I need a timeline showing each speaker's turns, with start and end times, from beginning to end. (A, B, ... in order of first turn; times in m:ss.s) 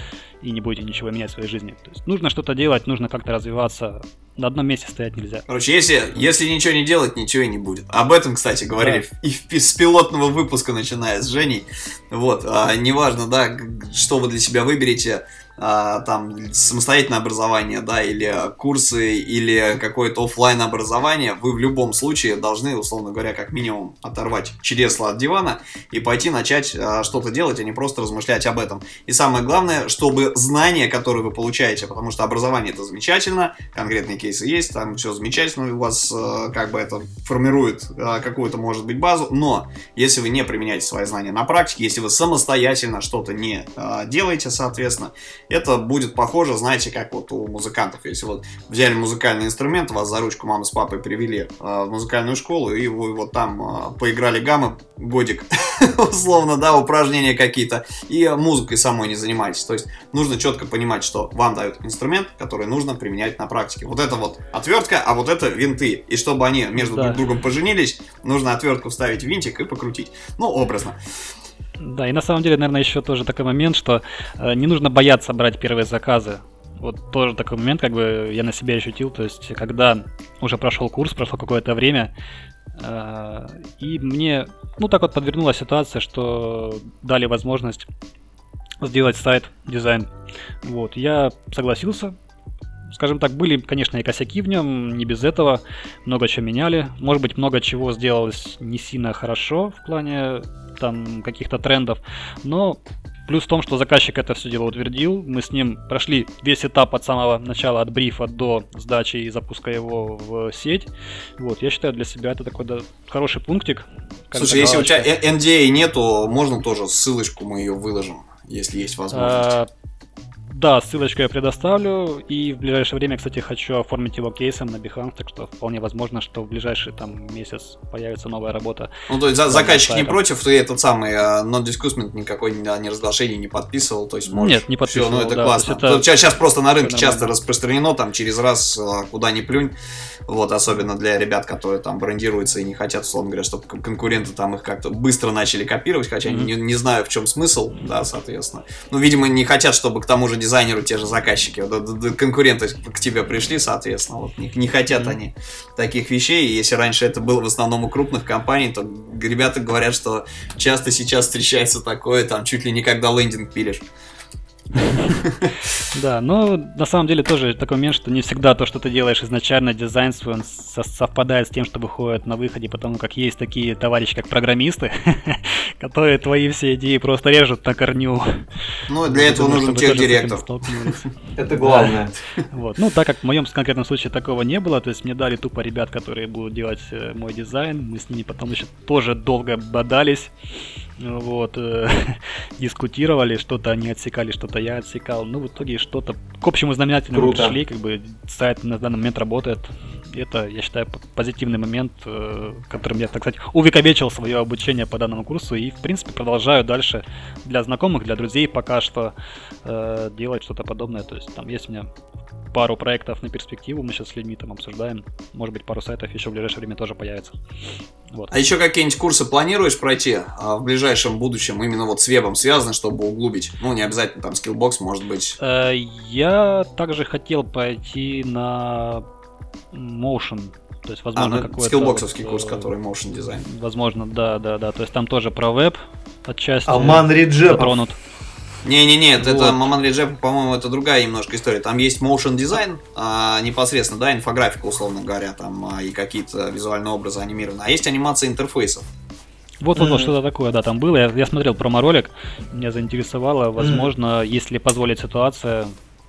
0:00.4-0:05.4 A
0:05.5-1:11.0 B
1:06.8-1:07.2 A
1:11.8-1:22.1 A
1:22.8-1:27.9 A
1:28.8-1:30.1 A
1:30.6-1:32.1 A
1:32.9-1:55.1 A
1:54.3-1:59.5 B
1:59.1-1:59.7 A
2:00.5-2:08.9 A
2:09.1-2:19.7 B
2:09.5-2:10.2 A
2:14.3-2:16.1 A
2:16.8-2:17.3 A
2:20.3-2:43.8 B
2:26.2-2:26.5 A
2:34.9-2:35.2 A
2:44.8-2:45.2 A
2:45.1-2:45.5 B
2:45.9-2:58.3 A
2:58.9-3:01.0 B
2:59.0-3:01.0 A
3:01.4-3:02.1 C
3:01.6-3:02.0 A
3:02.5-3:10.3 A
3:11.0-3:31.9 A
3:17.1-3:17.6 C
3:32.5-3:37.4 A
3:38.3-3:45.4 B
3:45.4-3:49.0 A
3:49.7-3:52.7 A
3:51.2-3:53.4 B
3:53.4-3:58.0 A
3:56.6-3:57.8 C
3:58.6-4:08.8 B
3:59.2-3:59.5 A
4:09.6-4:15.7 A
4:09.8-4:10.1 C
4:13.6-4:13.9 C